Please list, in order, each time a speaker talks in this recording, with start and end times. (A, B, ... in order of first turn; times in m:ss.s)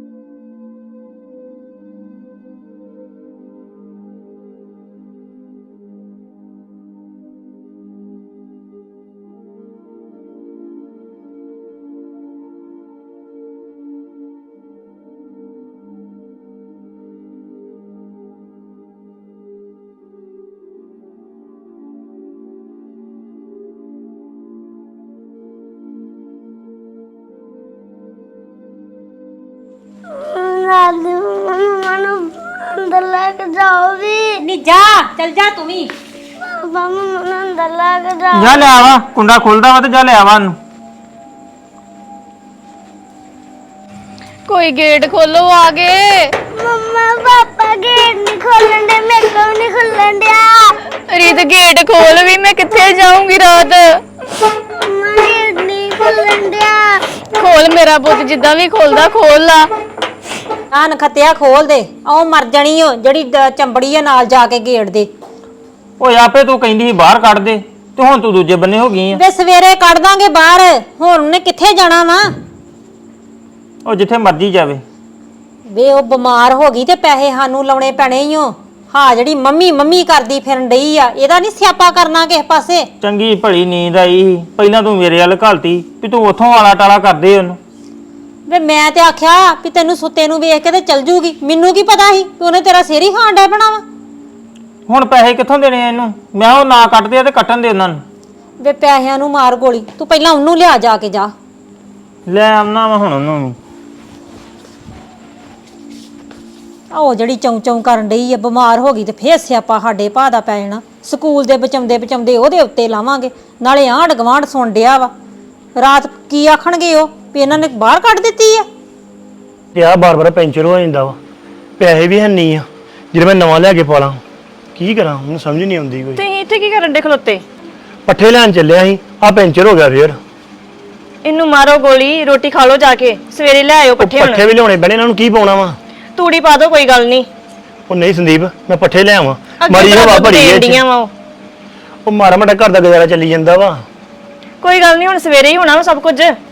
0:30.1-0:34.4 A
0:34.5-0:35.9 B
0:36.4-0:38.7 A
0:38.3-0:40.6 C
0:44.4-0:46.4 D
0:46.5-0:50.7 A
0:50.9-0:54.0 D
0:54.4-0:57.4 A
0:57.4-0:59.7 D
1:00.7-1:05.1 B
1:06.0-1:09.2 C
1:09.2-1:12.2 B
1:13.8-1:14.8 C
1:15.7-1:22.9 B
1:23.0-1:27.6 C
1:28.5-1:33.8 B
1:34.9-1:38.0 C
1:38.6-1:41.3 B
1:42.3-1:43.6 C
1:46.9-1:55.1 B
1:55.8-1:58.6 B
1:59.7-2:01.2 E
2:01.8-2:04.2 E
2:04.8-2:06.2 E
2:06.2-2:07.4 F
2:08.0-2:10.2 E
2:11.2-2:14.4 F
2:14.0-2:15.8 E
2:16.2-2:17.3 F
2:17.9-2:20.8 E
2:19.6-2:21.1 F
2:22.0-2:23.8 E
2:24.6-2:26.4 F